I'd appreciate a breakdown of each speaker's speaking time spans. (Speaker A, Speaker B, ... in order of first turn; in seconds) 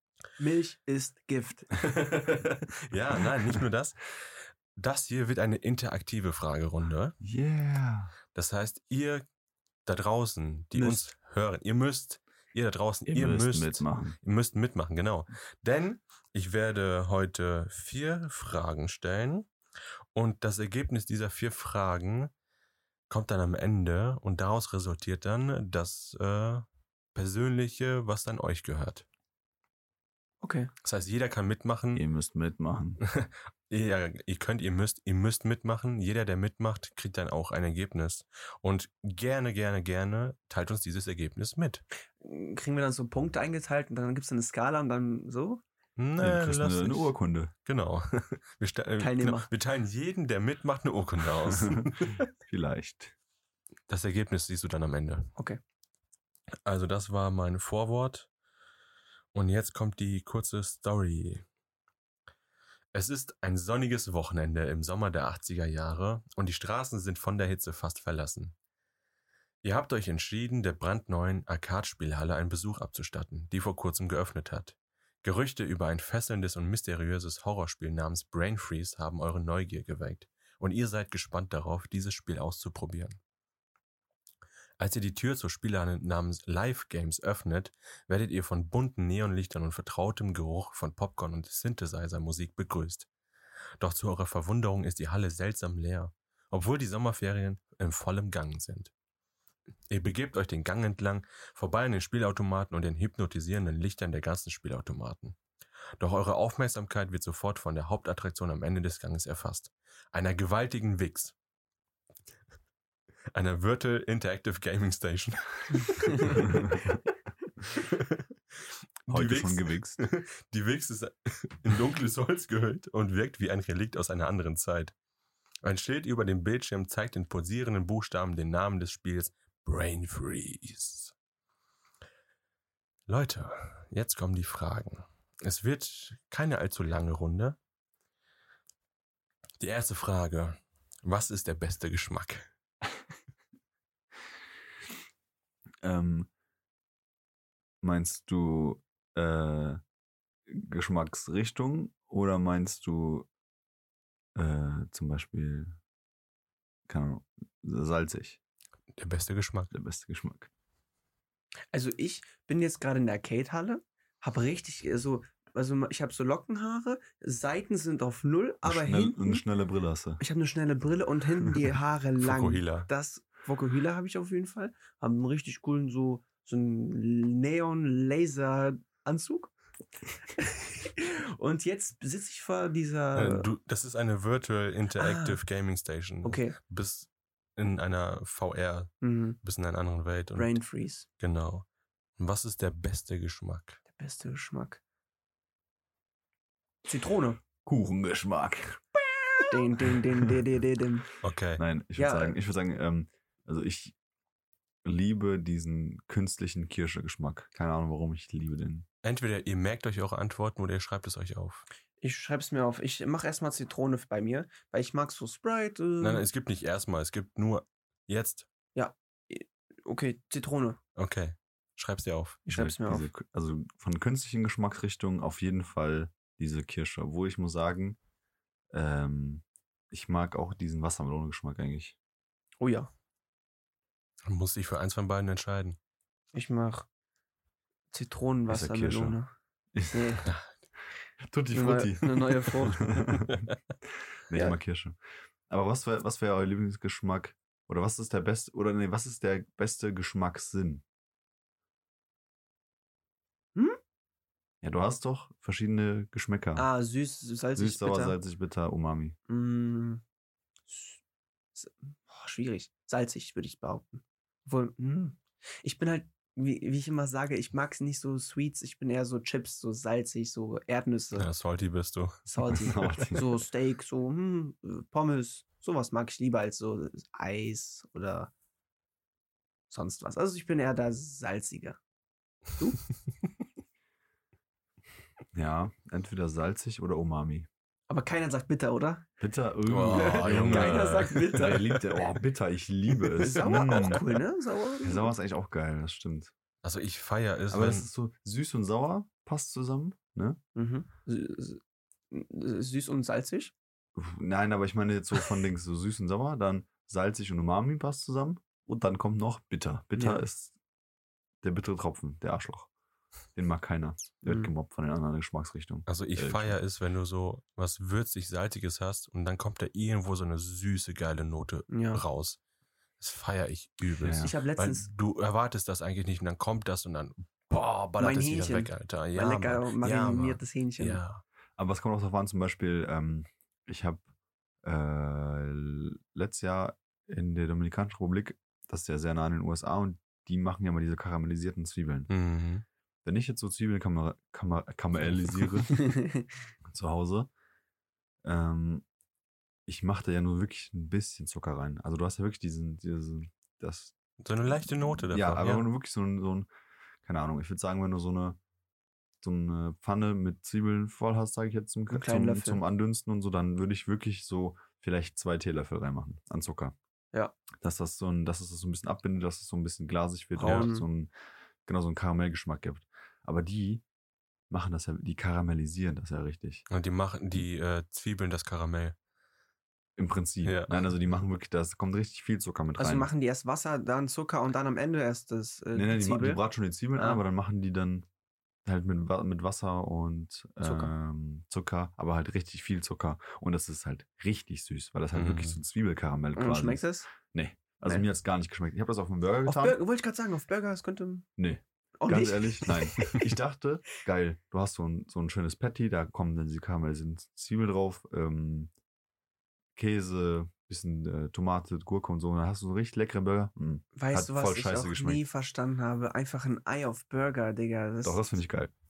Speaker A: 0.4-1.8, 10.7-11.1, 30.4-30.7, 42.2-45.6, 49.0-49.5, 161.7-169.4, 170.2-179.5, 180.3-183.5, 185.0-185.4, 186.2-186.6, 189.0-189.4, 190.4-191.1, 193.9-194.8, 196.9-197.4, 199.5-201.1, 202.0-202.4, 212.0-216.2, 218.8-220.8, 222.5-223.1, 232.6-232.9, 236.3-236.9, 237.9-239.3, 239.9-240.3, 241.5-242.9, 256.6-258.2, 259.3-260.0, 260.7-261.0, 261.6-271.3, 272.3-278.3, 279.7-281.8, 287.9-289.1, 289.9-291.8, 293.2-295.1, 300.6-303.5, 310.0-310.2, 321.7-322.0, 324.2-324.9, 328.0-331.0, 345.8-346.2, 361.9-362.6, 370.4-370.9, 382.8-386.4, 386.9-387.2, 390.6-390.9, 396.4-397.1, 399.5-401.3, 402.0-403.3, 413.9-418.2
Speaker B: 1.8-7.2, 8.3-9.2, 9.8-19.5, 20.1-22.3, 23.1-29.1, 30.8-32.0, 33.0-41.8, 46.0-47.1, 47.7-52.2, 53.9-55.3, 56.6-58.3, 59.3-61.4, 62.9-68.5, 69.6-83.2, 84.8-93.1, 93.8-98.9, 99.9-105.4, 106.0-111.3, 113.3-116.7, 117.8-124.9, 125.6-131.1, 133.1-137.6, 139.6-142.5, 158.9-159.7, 172.2-172.9, 183.2-190.6, 191.2-191.7, 192.2-193.8, 201.2-201.6, 209.0-211.7, 216.0-218.5, 221.0-222.5, 234.2-235.8, 243.3-243.6, 271.2-272.2, 289.7-291.8, 296.6-297.9, 315.9-322.4, 323.0-331.2, 342.1-342.6, 354.2-355.7, 370.4-370.7, 376.7-378.9, 380.4-380.7, 395.1-395.6
Speaker C: 7.2-8.1, 13.1-14.2, 31.9-33.0, 46.2-47.5, 51.4-53.1, 116.3-116.8, 119.1-120.0, 145.8-146.3, 147.8-149.8, 150.5-153.3, 154.3-155.8, 156.9-158.4, 159.7-160.5, 168.6-170.2, 197.6-200.4, 201.6-203.9, 204.8-208.9, 222.5-228.0, 228.7-232.0, 238.5-239.2, 239.7-240.3, 241.2-243.4, 244.3-245.0, 245.5-250.8, 254.6-256.7, 257.6-259.2, 272.5-273.4, 285.3-287.5, 289.2-294.2, 294.8-296.3, 297.5-300.4, 303.9-310.5, 311.4-312.7, 313.4-316.6, 324.0-324.3, 331.6-334.0, 334.6-342.1, 343.1-345.9, 346.7-347.3, 348.2-348.9, 349.7-353.9, 355.0-356.5, 357.0-358.4, 359.2-366.8, 367.6-371.1, 371.6-373.8, 374.5-376.6, 380.0-383.1, 385.8-388.1, 388.6-399.8, 401.4-408.7, 409.8-415.2, 418.0-418.7